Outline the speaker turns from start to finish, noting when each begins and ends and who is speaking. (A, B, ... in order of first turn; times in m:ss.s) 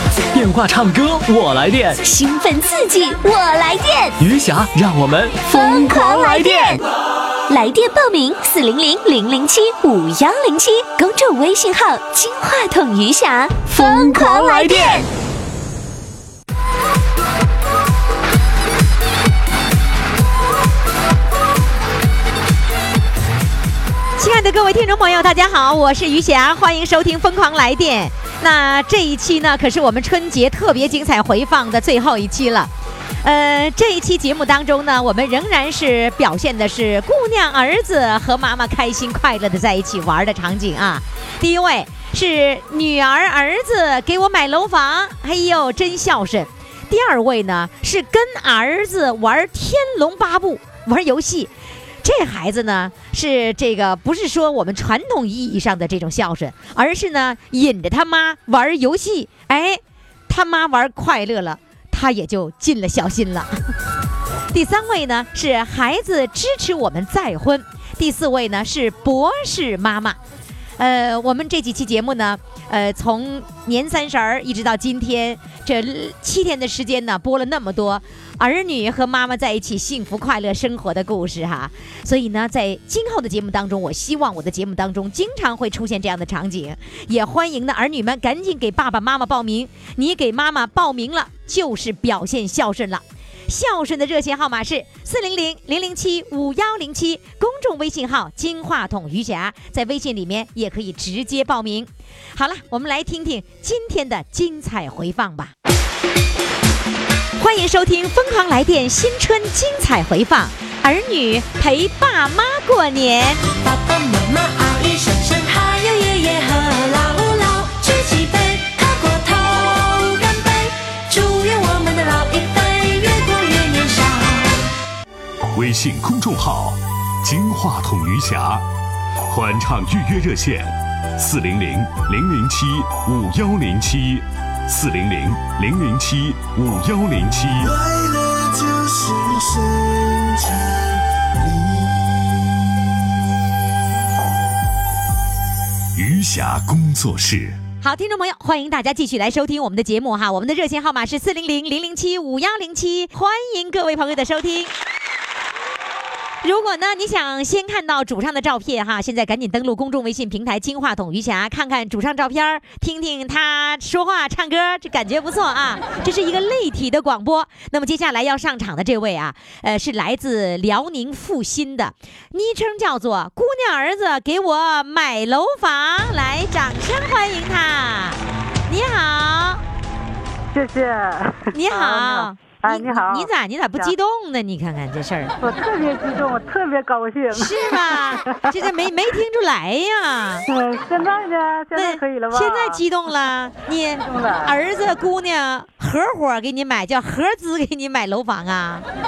0:00.3-0:02.0 A
0:02.0-0:04.2 B
0:04.2-0:05.4 A
0:05.4-0:06.8 B
0:07.5-0:15.1 B
0:13.8-0:15.0 A
0:24.2-0:32.7 C
0:33.2-0:51.5 C
0:52.0-1:03.5 C
1:04.5-1:10.2 C
1:10.8-1:45.5 C
1:47.4-1:53.4 C
1:53.6-2:04.6 D
2:05.5-2:08.7 E
2:09.3-2:17.7 E
2:17.6-2:22.1 F
2:26.0-2:27.6 E
2:27.8-2:34.7 C
2:36.4-2:59.6 C
3:00.5-3:03.9 G
3:01.5-3:05.3 C
3:05.4-3:08.6 G
3:07.3-3:10.5 C
3:10.5-3:12.8 G
3:11.7-3:18.8 C
3:14.0-3:14.5 G